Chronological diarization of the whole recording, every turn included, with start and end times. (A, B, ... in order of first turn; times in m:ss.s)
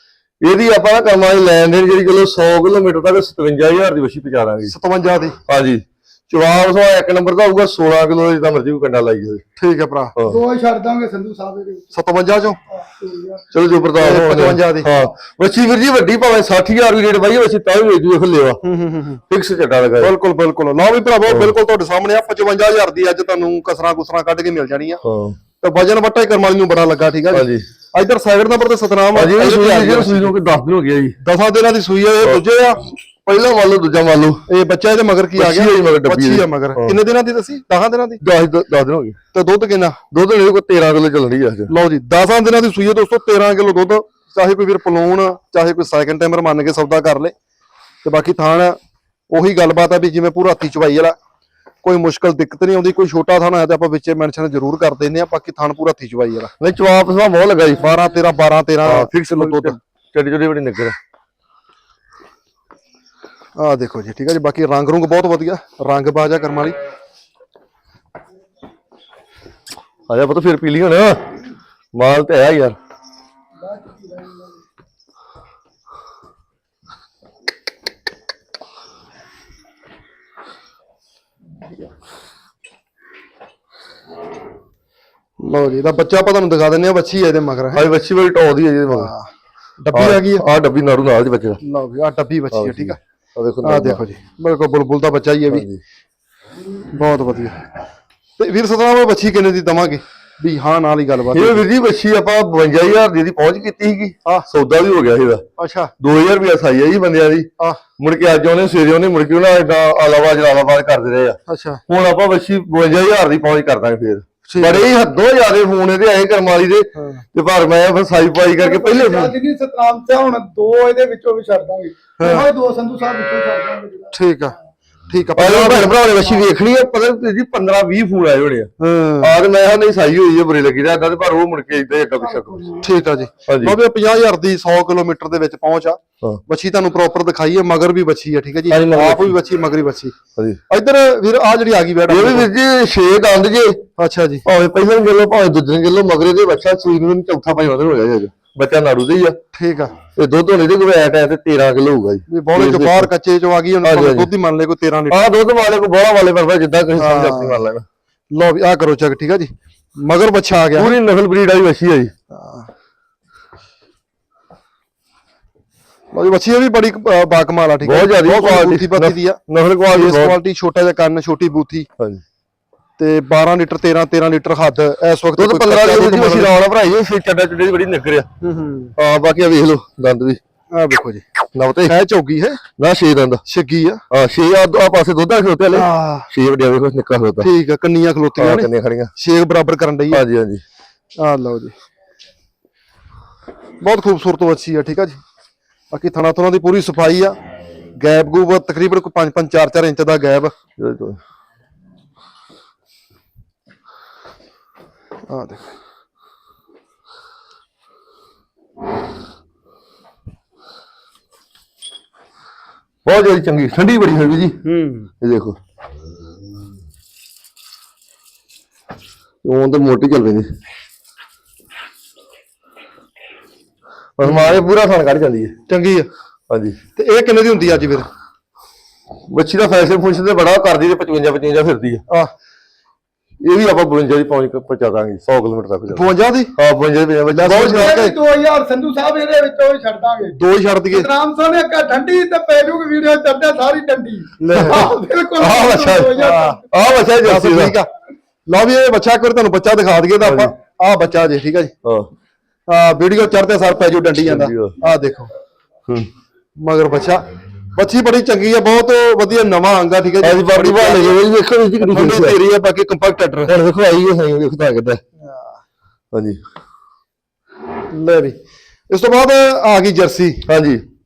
0:00.4-0:04.7 A
0:04.7-0:05.4 B
0:05.5-0:09.4 A
0:09.6-0:10.1 B
0:10.2-0:10.4 A
0:10.3-0:11.9 C
0:11.9-0:12.6 B
0:12.7-0:13.4 C
0:13.5-0:18.6 A
0:13.9-0:15.1 B
0:18.6-0:19.2 B
0:19.3-0:20.1 A
0:20.0-0:25.0 B
0:21.3-0:21.5 A
0:25.0-0:25.4 A
0:25.6-0:30.3 B
0:27.3-0:27.6 A
0:29.1-0:31.2 A
0:31.2-0:32.8 B
0:33.2-0:34.4 A
0:34.5-0:38.2 B
0:35.4-0:36.9 A
0:38.2-0:39.2 A
0:39.3-0:40.0 B
0:40.1-0:41.7 A
0:41.7-0:47.3 B
0:48.0-0:48.8 B
0:49.3-0:51.2 B
0:51.8-0:56.5 B
0:56.6-0:57.9 A
0:57.8-0:59.8 B
0:58.8-1:01.0 A
1:03.6-1:06.8 B
1:10.1-1:11.2 A
1:11.9-1:12.8 A
1:13.6-1:14.6 C
1:25.4-1:27.8 B
1:27.7-1:29.1 A
1:28.9-1:29.3 B
1:29.8-1:30.4 B
1:29.9-1:31.6 A
1:31.6-1:33.0 B
1:32.5-1:34.0 A
1:33.6-1:35.6 B
1:35.5-1:35.8 A
1:36.9-1:37.6 B
1:38.4-1:41.6 B
1:41.3-1:45.4 A
1:45.6-1:45.9 B
1:46.0-1:59.3 A
1:51.5-1:51.8 B
1:54.5-1:54.9 B
1:56.9-1:57.2 B
1:58.4-2:04.2 C
2:02.2-2:02.4 B
2:04.1-2:04.6 B
2:05.1-2:06.0 B
2:05.4-2:12.6 A
2:08.8-2:09.3 B
2:12.2-2:13.2 C
2:12.8-2:20.1 B
2:13.5-2:13.8 A
2:18.7-2:19.4 A
2:20.7-2:22.5 B
2:22.1-2:23.8 A
2:24.0-2:24.4 B
2:24.4-2:29.4 A
2:29.5-2:29.9 B
2:30.1-2:33.1 A
2:32.3-2:35.3 B
2:33.8-2:34.3 A
2:35.1-2:37.8 A
2:37.0-2:37.6 B
2:38.3-2:40.9 B
2:40.7-2:42.1 A
2:42.3-2:42.7 B
2:46.1-2:51.9 B
2:47.8-2:50.4 A
2:53.0-2:56.5 B
2:55.4-2:58.3 A
2:58.4-2:58.9 B
2:59.0-3:00.4 A
3:00.7-3:01.2 B
3:01.5-3:01.9 A
3:01.8-3:02.6 B
3:02.8-3:03.4 A
3:03.4-3:04.0 B
3:04.1-3:07.5 A
3:05.7-3:06.3 B
3:07.4-3:10.2 B
3:08.4-3:09.1 A
3:10.1-3:10.6 A
3:11.2-3:11.7 B
3:13.8-3:15.2 B
3:15.9-3:17.3 B
3:18.0-3:20.5 B
3:20.8-3:21.2 A
3:25.3-3:25.7 B
3:33.0-3:34.6 A
3:34.6-3:35.1 B
3:35.2-3:35.6 A
3:39.4-3:40.5 A
3:44.2-3:45.5 A
3:44.2-3:44.6 B
3:45.7-3:46.1 B
3:46.5-3:46.8 A
3:47.0-3:48.1 B
3:49.3-3:52.0 A
3:53.4-3:58.1 A
3:55.9-3:56.5 B
3:57.3-3:58.2 B
3:57.5-4:00.4 C
4:00.3-4:01.1 B
4:00.9-4:06.7 C
4:04.4-4:04.9 B
4:04.5-4:04.8 A
4:05.4-4:06.2 A
4:06.2-4:06.6 B
4:06.7-4:07.8 A
4:07.2-4:07.9 B
4:08.5-4:11.7 B
4:10.2-4:10.5 A
4:12.7-4:15.3 B
4:14.3-4:14.8 A
4:16.6-4:21.2 B
4:20.2-4:22.4 A
4:21.8-4:23.5 B
4:23.4-4:25.0 A
4:25.2-4:25.6 B
4:26.1-4:26.4 A
4:27.9-4:28.4 B
4:28.9-4:30.4 B
4:30.4-4:30.8 A